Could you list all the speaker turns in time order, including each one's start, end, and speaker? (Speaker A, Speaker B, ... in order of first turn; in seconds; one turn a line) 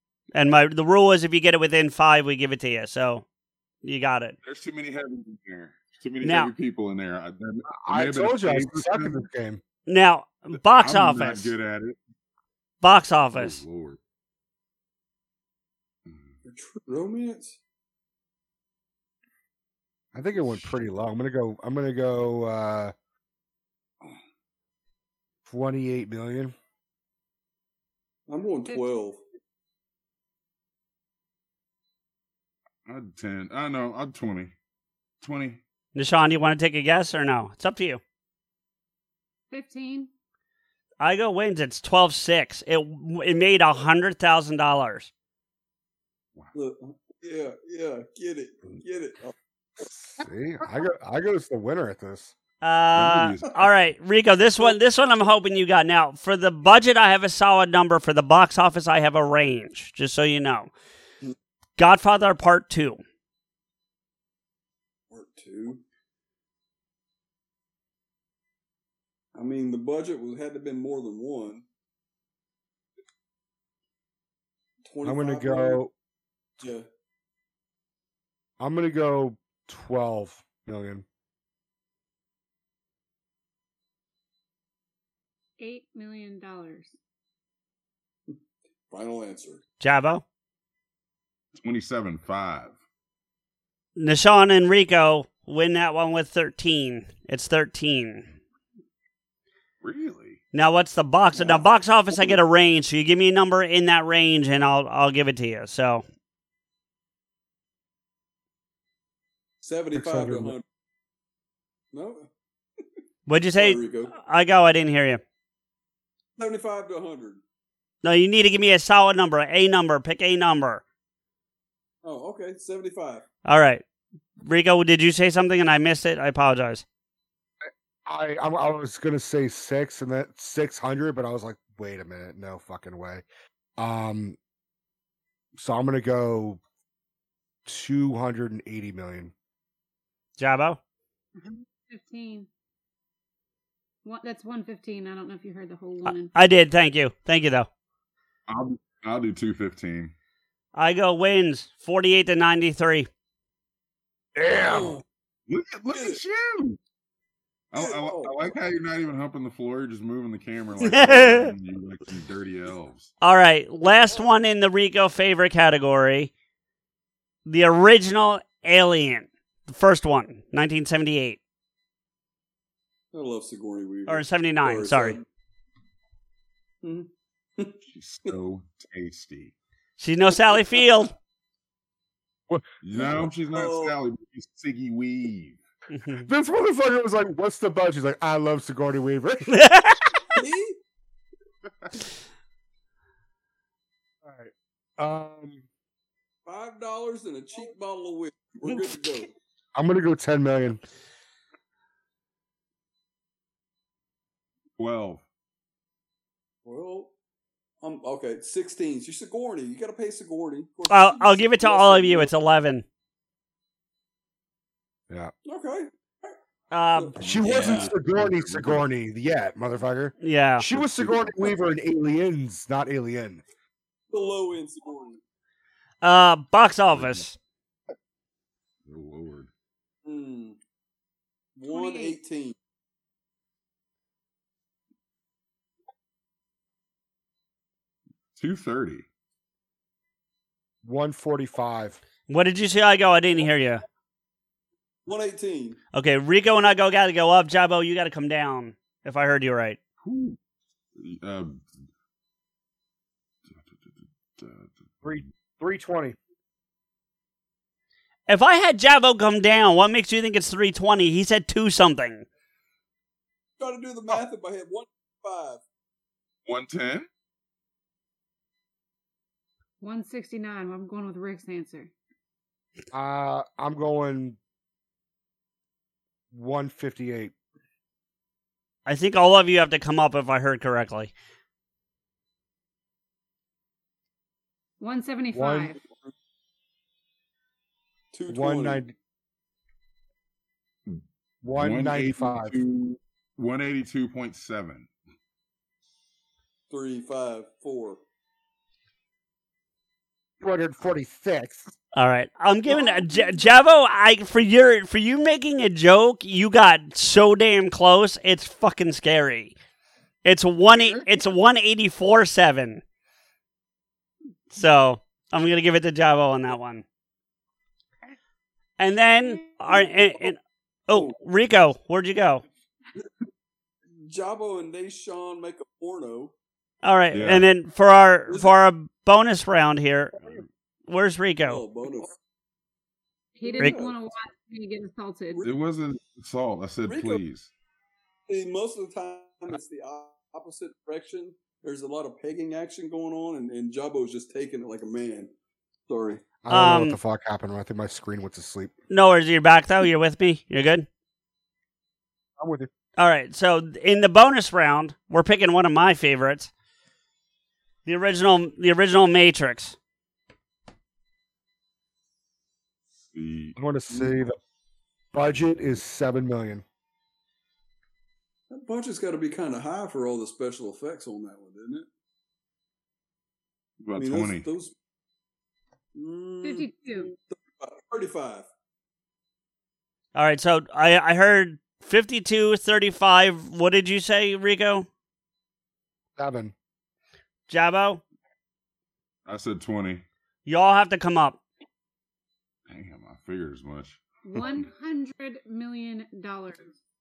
Speaker A: 0.3-3.2
Speaker A: 3.8-4.4
Speaker B: 4.4-9.2
Speaker A: 6.2-6.5
Speaker C: 7.8-9.6
Speaker A: 9.9-11.5
Speaker B: 10.6-12.0
Speaker A: 12.8-13.6
Speaker B: 13.3-14.0
Speaker D: 16.4-17.6
Speaker C: 20.1-22.9
Speaker C: 25.4-26.6
Speaker D: 28.3-29.2
Speaker B: 32.9-34.5
Speaker B: 35.2-35.6
Speaker A: 36.0-38.0
Speaker E: 39.5-40.1
Speaker A: 41.0-45.1
Speaker D: 46.5-49.3
Speaker C: 49.8-52.3
Speaker A: 52.6-60.7
Speaker B: 52.9-53.7
Speaker A: 61.8-63.0
Speaker D: 65.1-65.8
Speaker D: 69.3-71.6
Speaker D: 74.8-75.8
Speaker C: 75.0-75.9
Speaker D: 76.6-76.9
Speaker C: 78.6-81.0
Speaker E: 85.6-87.0
Speaker D: 88.9-89.6
Speaker A: 89.8-90.2
Speaker B: 91.6-92.8
Speaker A: 94.0-98.3
Speaker B: 99.8-100.4
Speaker A: 100.5-106.0
Speaker D: 109.6-110.6
Speaker C: 110.0-110.5
Speaker D: 111.9-112.3
Speaker A: 113.3-115.2
Speaker D: 113.5-114.1
Speaker D: 116.4-117.4
Speaker A: 118.0-120.8
Speaker D: 122.0-123.2
Speaker A: 123.5-123.8
Speaker A: 124.4-126.8
Speaker C: 127.6-133.2
Speaker C: 133.8-134.4
Speaker C: 135.6-136.6
Speaker C: 137.7-139.3
Speaker A: 140.4-140.8
Speaker E: 141.3-142.5
Speaker E: 144.1-146.3
Speaker A: 146.1-147.7
Speaker B: 148.5-150.1
Speaker A: 150.7-153.1
Speaker C: 154.3-155.0
Speaker D: 154.6-155.0
Speaker B: 155.5-156.8
Speaker D: 155.9-156.2
Speaker B: 157.7-163.1
Speaker D: 157.8-158.5
Speaker A: 160.9-161.5
Speaker A: 163.2-166.3
Speaker A: 167.4-171.4
Speaker D: 173.1-175.2
Speaker A: 174.1-175.2
Speaker D: 176.8-177.8
Speaker B: 177.9-179.5
Speaker A: 180.0-181.1
Speaker B: 182.8-185.6
Speaker D: 182.9-183.9
Speaker A: 185.9-186.3
Speaker C: 186.2-189.6
Speaker A: 189.5-190.2
Speaker D: 190.3-190.8
Speaker C: 194.2-195.7
Speaker D: 196.4-199.3
Speaker C: 199.7-200.8
Speaker B: 204.8-205.2
Speaker D: 206.7-207.1
Speaker D: 207.8-212.3
Speaker A: 210.9-212.8
Speaker D: 215.4-216.4
Speaker A: 216.7-217.1
Speaker D: 216.9-217.9
Speaker B: 217.2-218.8
Speaker C: 217.2-223.4
Speaker A: 220.2-220.7
Speaker B: 220.7-221.5
Speaker D: 224.1-225.2
Speaker A: 226.0-227.3
Speaker B: 226.9-227.2
Speaker B: 228.8-229.5
Speaker D: 230.1-230.6
Speaker D: 231.6-232.6
Speaker E: 231.7-232.2
Speaker B: 238.3-239.1
Speaker C: 240.8-242.0
Speaker A: 242.3-243.8
Speaker D: 245.1-245.8
Speaker A: 245.9-249.8
Speaker B: 250.0-250.4
Speaker B: 250.9-251.7
Speaker B: 253.5-255.2
Speaker C: 255.0-256.2
Speaker A: 258.3-262.3
Speaker D: 263.6-265.6
Speaker B: 266.5-267.1
Speaker E: 269.8-271.9
Speaker C: 272.9-274.4
Speaker C: 276.3-277.4
Speaker A: 278.9-281.1
Speaker E: 284.8-285.8
Speaker C: 285.3-285.7
Speaker D: 288.1-288.9
Speaker C: 288.3-288.9
Speaker C: 291.4-292.6
Speaker B: 291.6-294.9
Speaker D: 296.7-298.0
Speaker C: 300.4-301.7
Speaker A: 301.9-309.6
Speaker A: 310.2-312.8
Speaker B: 310.7-311.1
Speaker A: 314.5-316.9
Speaker A: 318.8-322.4
Speaker D: 319.4-320.3
Speaker D: 324.0-326.3
Speaker A: 326.8-330.2
Speaker B: 327.1-327.5
Speaker A: 330.9-331.6
Speaker D: 331.4-332.1
Speaker E: 333.4-335.5
Speaker D: 333.4-333.9
Speaker B: 335.4-337.5
Speaker D: 336.9-337.2
Speaker D: 338.3-345.3
Speaker D: 345.9-346.2
Speaker C: 346.4-348.7
Speaker A: 346.5-347.0
Speaker A: 348.9-350.9
Speaker C: 352.4-352.7
Speaker A: 353.0-356.5
Speaker A: 357.9-359.8
Speaker B: 363.1-363.6
Speaker C: 363.6-364.4
Speaker C: 365.1-366.6
Speaker D: 368.5-371.9
Speaker B: 373.8-374.5
Speaker D: 373.9-374.7
Speaker D: 375.9-378.5
Speaker E: 376.4-377.2
Speaker A: 380.1-384.9
Speaker C: 386.2-386.5
Speaker A: 387.5-388.0
Speaker B: 389.3-390.0
Speaker A: 390.4-391.4
Speaker B: 392.7-394.0
Speaker E: 394.2-396.7